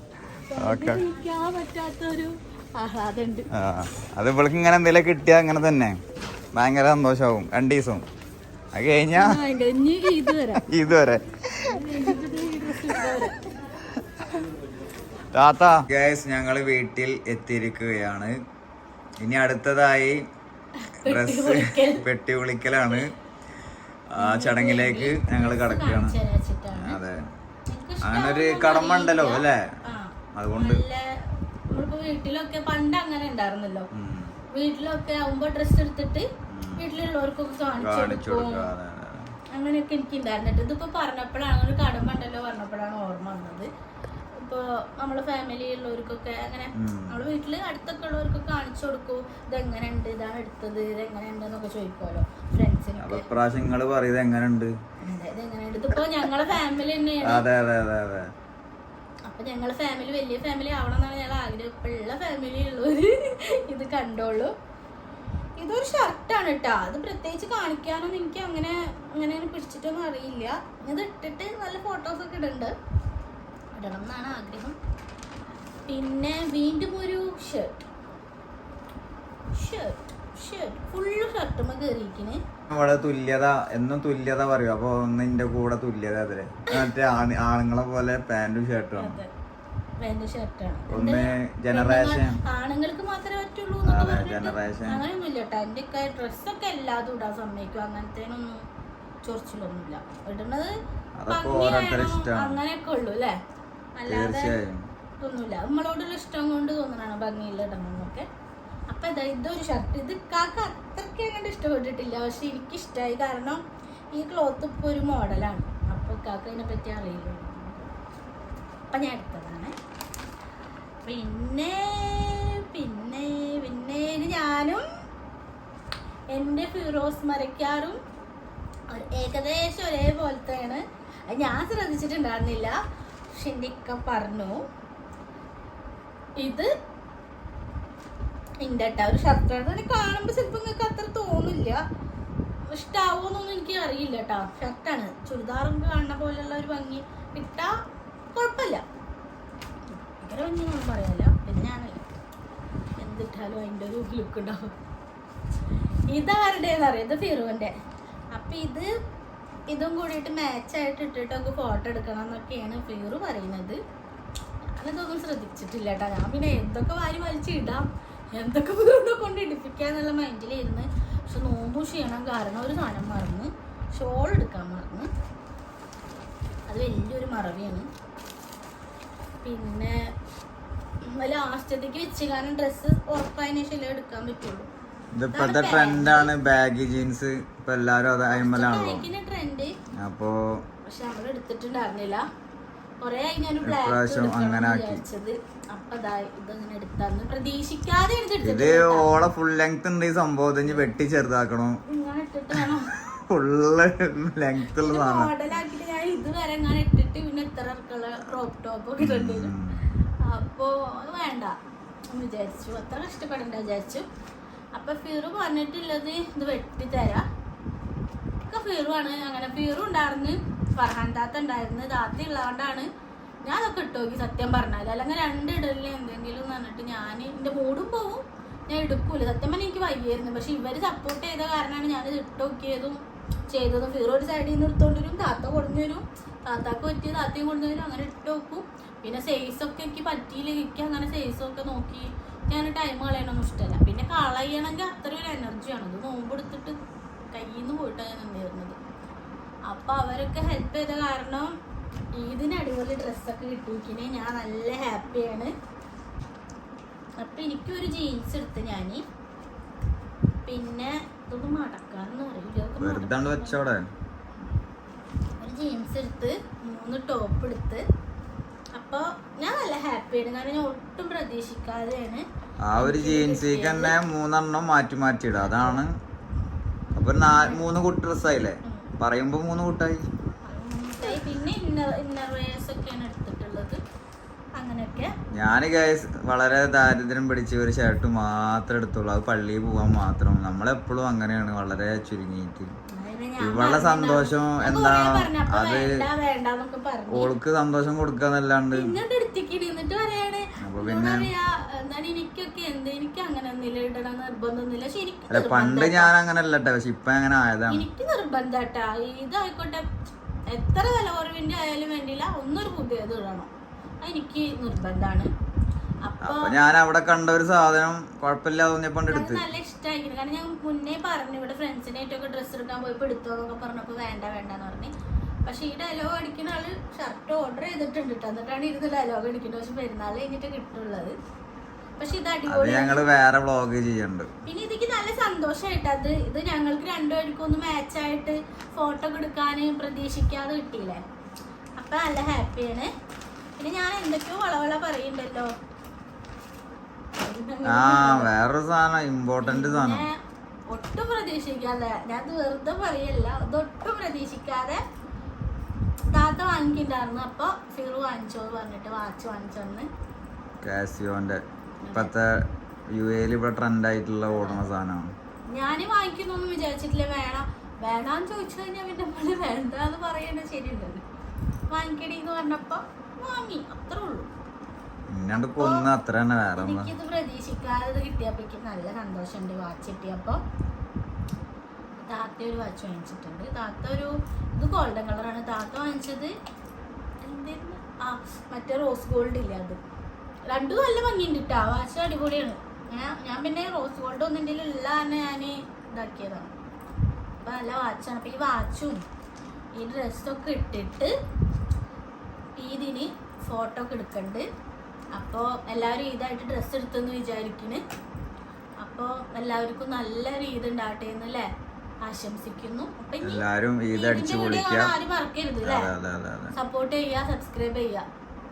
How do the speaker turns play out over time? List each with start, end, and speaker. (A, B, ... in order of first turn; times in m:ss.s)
0:00.5-0:03.5 A
0:00.6-0:01.0 B
0:03.5-0:05.9 B
0:06.5-0:08.0 B
0:08.7-0:09.4 B
0:09.1-0:10.6 A
0:10.6-0:12.0 B
0:11.6-0:13.4 A
0:15.3-0:18.3 B
0:19.2-0:20.2 B
0:20.8-0:22.1 A
0:21.0-0:23.1 B
0:24.1-0:26.2 B
0:24.2-0:27.0 A
0:26.7-0:27.2 B
0:27.7-0:33.9 A
0:28.0-0:29.6 B
0:30.3-0:30.8 B
0:33.9-0:34.4 B
0:34.5-0:38.7 A
0:36.5-0:36.9 B
0:37.7-0:39.3 B
0:39.5-0:43.7 A
0:44.4-0:53.3 A
0:46.8-0:47.3 B
0:53.0-0:54.7 B
0:55.0-0:57.4 A
0:57.2-0:58.3 B
0:59.3-1:04.5 A
1:05.6-1:12.7 A
1:13.8-1:14.8 A
1:15.9-1:17.8 A
1:19.5-1:22.4 A
1:22.7-1:29.2 B
1:29.0-1:29.3 A
1:30.0-1:38.6 A
1:30.9-1:32.4 B
1:33.8-1:35.0 B
1:39.2-1:40.7 A
1:41.2-1:42.6 B
1:41.3-1:43.4 A
1:44.0-1:44.6 A
1:44.0-1:44.8 B
1:45.2-1:48.3 A
1:48.9-1:53.6 A
1:54.1-1:57.9 A
1:58.9-1:59.8 A
2:01.0-2:04.8 A
2:06.3-2:08.0 A
2:08.9-2:12.7 A
2:13.3-2:14.6 A
2:16.4-2:16.7 A
2:18.6-2:21.8 A
2:22.7-2:27.7 A
2:28.3-2:28.8 A
2:29.9-2:32.1 A
2:33.0-2:34.7 A
2:36.1-2:37.7 A
2:38.3-2:38.9 A
2:39.7-2:43.8 A
2:44.7-2:55.1 A
2:56.7-2:57.9 A
2:59.4-3:00.0 A
3:01.0-3:04.7 A
3:05.1-3:09.1 B
3:05.3-3:06.3 A
3:08.3-3:09.7 A
3:10.0-3:10.4 B
3:10.8-3:12.2 A
3:13.0-3:19.1 A
3:13.6-3:15.0 B
3:18.4-3:21.8 B
3:21.9-3:22.9 A
3:22.6-3:25.3 B
3:24.6-3:29.5 A
3:29.0-3:29.9 B
3:30.2-3:31.6 A
3:32.1-3:34.1 A
3:34.7-3:37.2 A
3:38.5-3:42.9 A
3:43.4-4:06.8 A
4:07.3-4:08.8 A
4:09.7-4:11.5 A
4:12.2-4:15.5 A
4:17.2-4:19.0 A
4:20.5-4:23.6 A
4:22.8-4:23.8 B
4:25.4-4:27.8 A
4:28.7-4:32.2 A
4:32.6-4:35.9 B
4:32.8-4:34.0 A
4:35.4-4:35.8 A
4:36.9-4:40.0 B
4:37.2-4:37.7 A
4:40.4-4:43.8 A
4:44.6-4:45.1 A
4:45.3-4:52.7 B
4:52.9-4:57.3 A
4:53.4-4:56.0 B
4:57.1-4:58.9 B
4:58.7-5:06.1 A
5:00.6-5:01.3 B
5:05.3-5:07.8 B
5:07.7-5:09.9 A
5:10.5-5:13.5 A
5:14.0-5:15.3 A
5:16.0-5:16.6 A
5:16.2-5:19.4 B
5:19.1-5:24.9 A
5:25.4-5:31.2 A
5:32.0-5:33.0 A
5:32.4-5:34.3 B
5:34.4-5:41.0 A
5:41.8-5:42.9 A
5:43.6-5:45.5 A
5:47.2-5:48.3 A
5:47.6-5:50.0 B
5:49.4-5:54.8 A
5:56.1-5:59.9 A
6:00.6-6:01.4 B
6:01.8-6:02.1 A
6:01.9-6:05.1 B
6:04.3-6:04.7 A
6:05.5-6:11.0 A
6:11.7-6:14.3 A
6:15.1-6:16.9 B
6:15.3-6:15.9 A
6:16.5-6:20.4 A
6:22.0-6:26.3 A
6:27.2-6:29.8 A
6:30.5-6:36.5 A
6:37.4-6:39.0 A
6:39.8-6:41.1 A
6:42.6-6:44.4 A
6:45.1-6:47.8 A
6:48.8-6:51.5 A
6:52.0-6:55.9 A
6:53.2-6:54.9 B
6:55.6-6:56.5 B
6:56.5-6:58.0 A